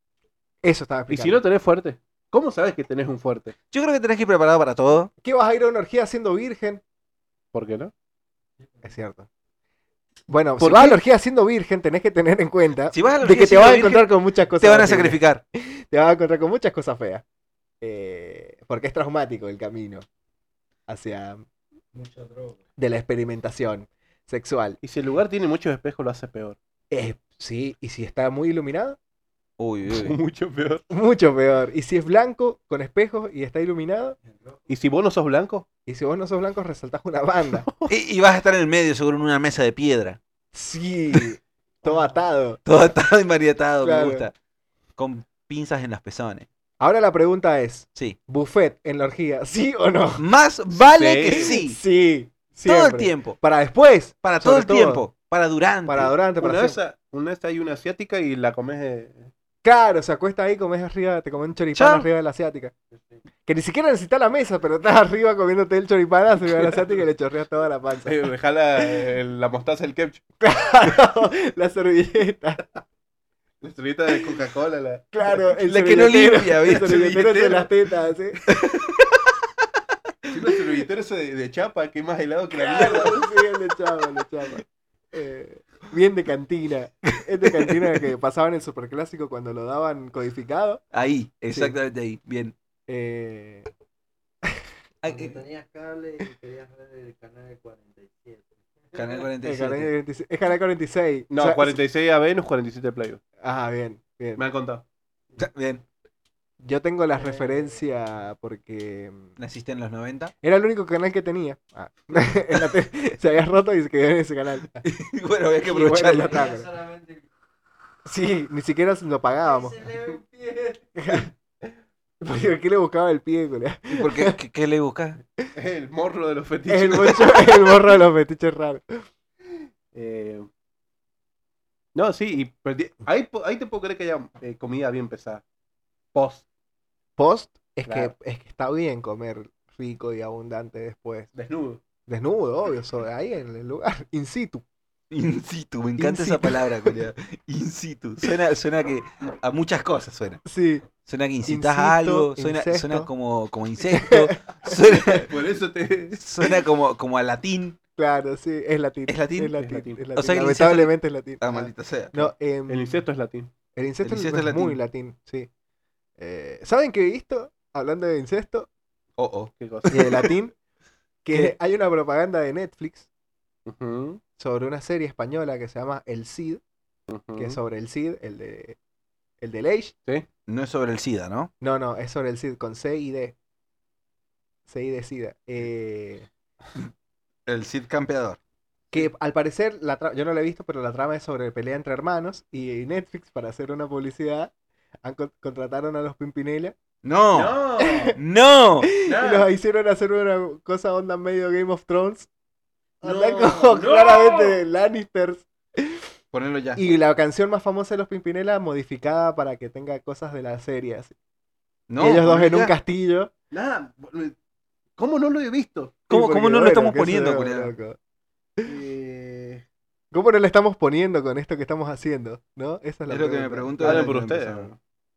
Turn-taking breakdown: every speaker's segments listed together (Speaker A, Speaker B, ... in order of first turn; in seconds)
Speaker A: 0.6-1.4, 5.2-6.8, 8.8-9.3, 10.3-17.2, 17.8-20.1, 20.9-21.4, 22.8-24.8, 26.9-29.0, 30.9-34.2, 35.9-37.7, 40.5-42.6, 43.8-44.3, 46.8-50.2, 51.3-55.1, 55.9-56.8, 59.6-62.7, 63.5-69.1, 70.4-72.8, 75.1-78.6, 82.5-90.8, 92.9-93.7, 99.4-101.8, 103.4-104.4, 106.6-109.3, 110.4-114.8, 115.6-116.7, 118.0-119.9, 121.0-121.3, 122.2-124.4, 126.7-129.1, 137.2-141.3, 142.1-144.6, 146.0-147.0, 150.4-150.9, 151.4-153.1, 153.9-155.1, 158.0-163.0, 163.8-165.5, 166.2-168.7, 169.9-170.6, 171.2-173.1, 174.4-176.6, 177.3-178.8, 179.4-179.9, 181.6-183.3, 184.7-186.3, 188.9-194.5, 195.0-196.8, 197.8-198.2, 198.8-202.3, 203.0-206.1, 206.8-211.2, 212.0-213.3, 216.1-218.0, 220.1-224.1
Speaker B: 1.1-3.5, 7.5-7.9, 10.6-11.0, 24.8-26.6, 29.9-30.8, 34.7-35.7, 50.9-51.6, 56.4-59.3, 68.1-70.2, 73.6-75.1, 76.8-77.7, 80.3-83.3, 101.3-103.2, 104.4-104.8, 125.5-127.8, 129.9-130.5, 131.9-135.4, 136.1-136.4, 137.9-138.1, 141.3-141.8, 155.1-156.2, 159.6-160.0, 162.7-163.5, 169.6-170.3, 173.7-174.2, 177.1-177.6, 197.3-198.2, 199.1-199.5, 203.0-204.6, 213.5-214.3, 215.0-216.0, 218.6-219.6, 223.8-224.8
Speaker C: 3.7-5.1, 12.9-15.4, 29.6-30.2, 37.9-40.2, 42.6-44.3, 45.0-46.5, 50.2-51.8, 52.6-53.4, 54.2-56.2, 61.8-62.1, 75.6-77.5, 78.5-79.0, 90.9-92.5, 95.0-95.4, 98.9-99.9, 105.4-105.8, 109.4-110.3, 114.8-116.5, 123.9-125.2, 145.1-150.4, 151.0-155.3, 156.2-157.8, 159.1-159.6, 160.2-162.3, 164.0-164.8, 169.2-169.5, 180.5-181.5, 187.5-188.4, 197.0-197.6, 198.2-198.9, 206.3-206.9, 211.9-212.7, 216.1-217.7, 223.1-224.7
Speaker D: 21.9-22.6, 95.1-99.3, 116.2-117.2, 119.6-120.9